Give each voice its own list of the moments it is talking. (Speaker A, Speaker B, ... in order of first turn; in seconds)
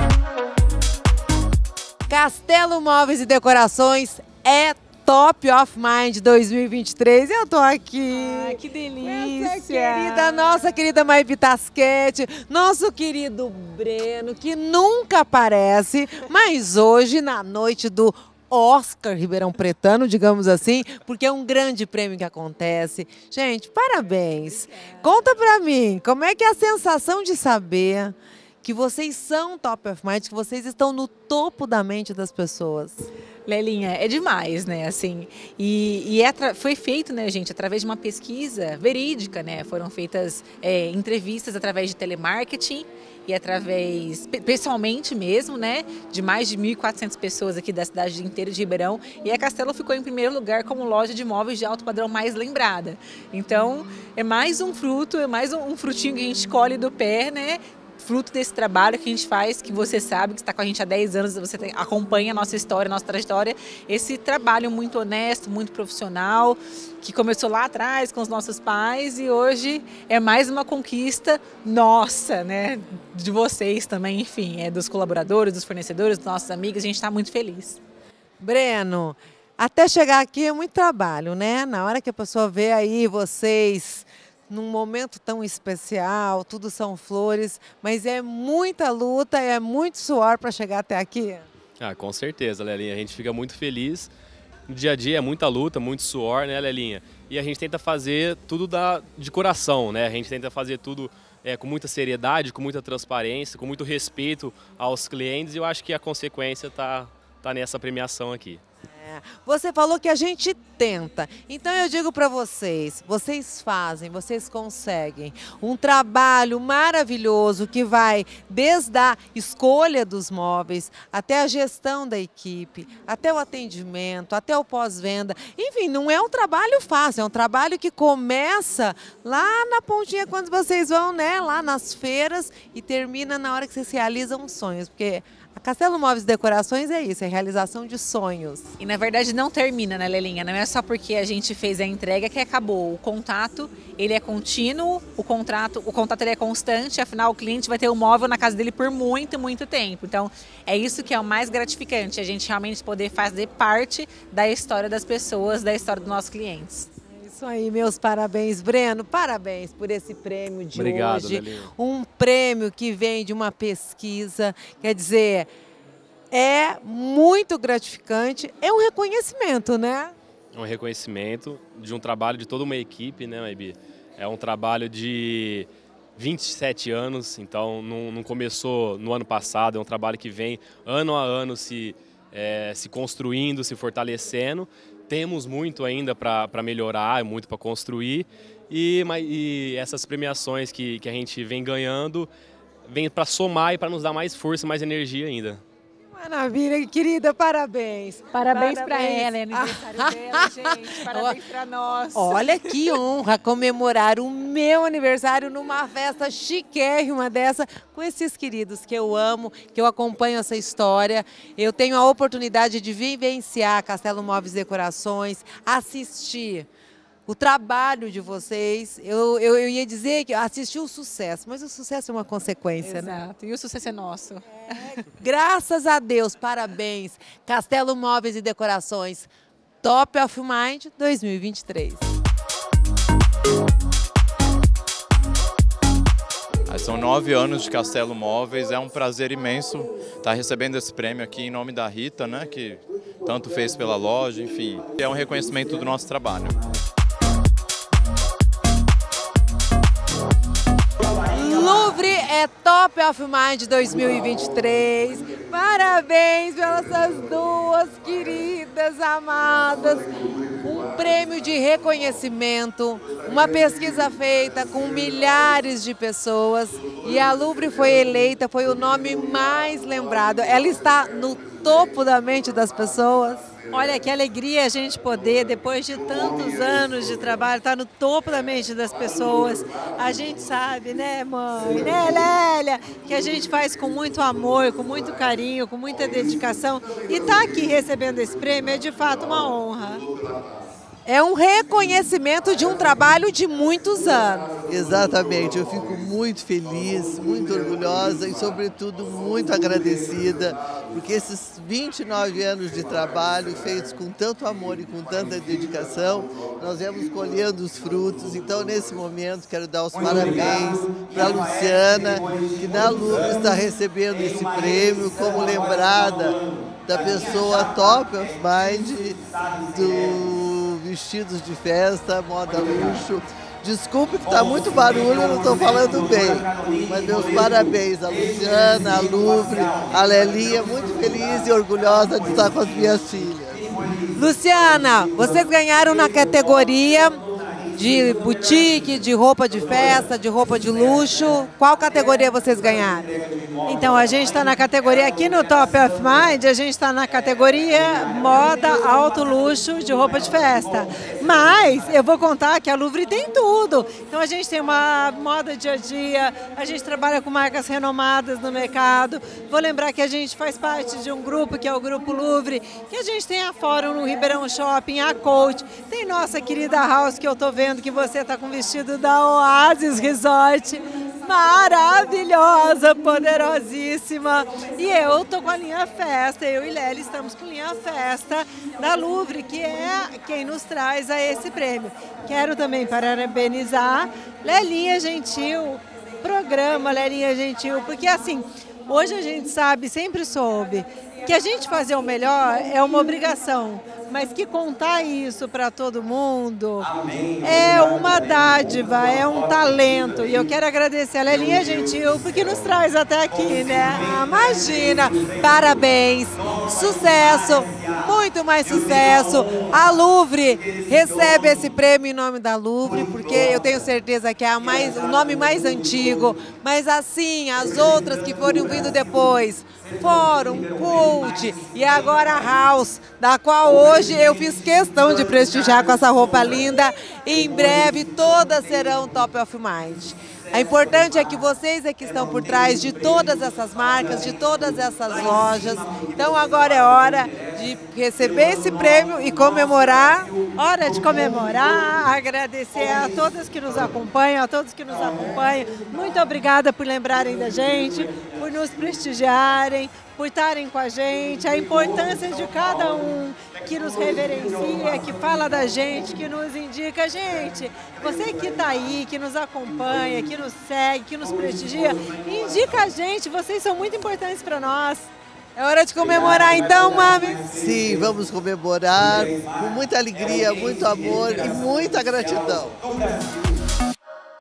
Speaker A: 2.1-33.0, 78.4-91.5, 109.0-138.7, 157.1-165.5, 166.3-170.1, 196.1-201.4, 202.1-216.7, 217.3-223.2, 224.9-229.3, 229.8-232.1, 251.3-260.1, 260.6-273.4, 291.1-294.6, 334.1-337.2, 337.7-343.1, 404.0-440.3, 465.6-467.4
Speaker B: 8.1-10.7, 24.7-24.9, 33.5-77.8, 138.8-156.9, 198.3-202.9, 222.8-224.9
Speaker C: 91.8-94.1, 94.7-108.6, 160.7-161.7, 170.5-192.3, 192.8-195.6, 239.8-240.3, 242.4-243.9, 244.8-245.1, 245.6-246.1
Speaker D: 236.7-242.7, 243.3-246.5
Speaker E: 273.7-290.0, 343.6-404.0, 440.5-465.1
Speaker F: 294.6-333.6, 467.5-472.7